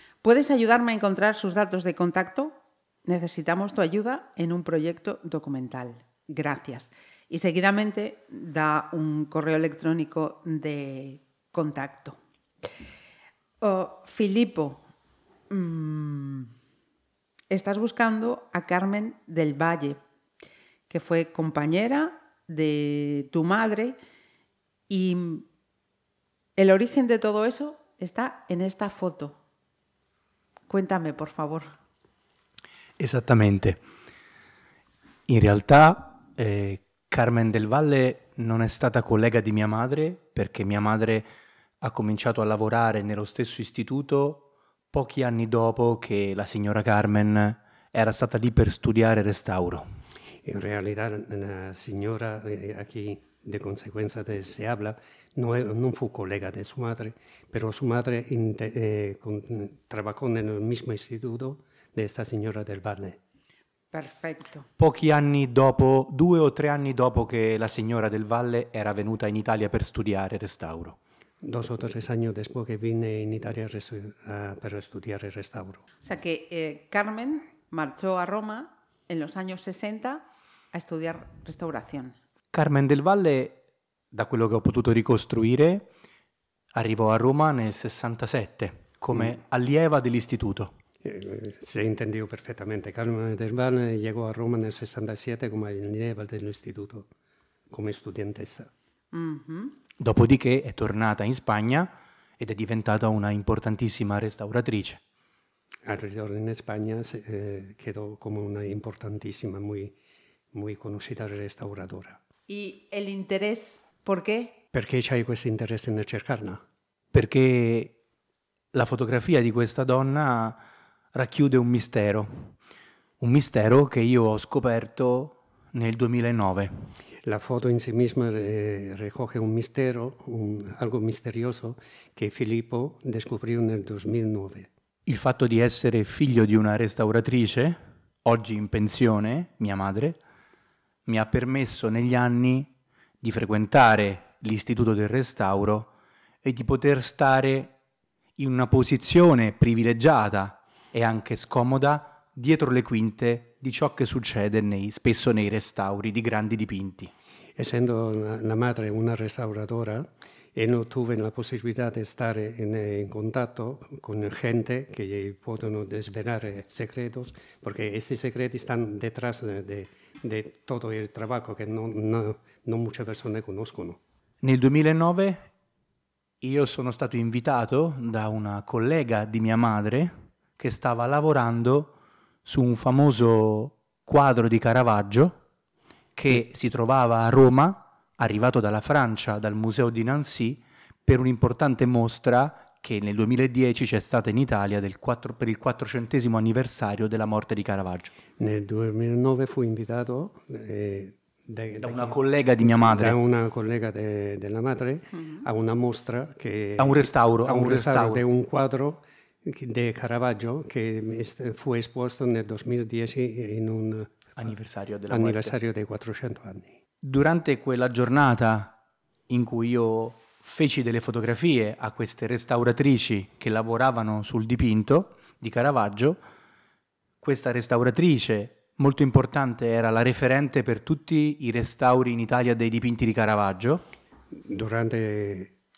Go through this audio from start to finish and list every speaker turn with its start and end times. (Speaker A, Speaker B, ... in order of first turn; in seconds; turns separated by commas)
Speaker A: 0.2-12.2, Speaker A: 13.6-14.8, Speaker A: 15.5-16.5, Speaker A: 17.5-20.0, Speaker A: 20.9-24.0, Speaker A: 24.9-25.5, Speaker A: 26.6-29.4, Speaker A: 30.7-31.7, Speaker B: 33.0-33.8, Speaker B: 35.3-41.3, Speaker B: 41.8-49.9, Speaker C: 50.4-63.2, Speaker A: 63.9-64.7, Speaker B: 64.8-71.0, Speaker C: 71.4-75.8, Speaker A: 76.0-82.2, Speaker B: 82.5-83.6, Speaker B: 84.1-85.9, Speaker B: 86.7-90.7, Speaker C: 91.0-97.1, Speaker C: 97.7-98.7, Speaker A: 99.1-99.8, Speaker B: 100.0-105.0, Speaker C: 105.8-110.0, Speaker C: 110.5-112.2, Speaker A: 112.5-114.6, Speaker C: 114.7-116.6, Speaker B: 117.1-117.9, Speaker B: 118.7-120.6, Speaker B: 121.1-122.5, Speaker B: 123.2-126.9, Speaker C: 127.2-134.7, Speaker B: 135.1-140.2, Speaker B: 141.1-142.7, Speaker B: 143.2-145.9, Speaker B: 146.4-147.7, Speaker B: 148.4-157.1, Speaker C: 157.6-174.0, Speaker B: 174.4-175.5, Speaker B: 176.4-181.9, Speaker B: 182.4-185.4, Speaker B: 186.2-198.2, Speaker C: 198.4-214.5, Speaker B: 201.8-203.2, Speaker B: 206.8-208.2, Speaker B: 214.4-215.5, Speaker C: 215.1-216.8, Speaker B: 217.0-218.8, Speaker B: 219.3-226.2, Speaker B: 227.2-233.8, Speaker C: 234.3-235.6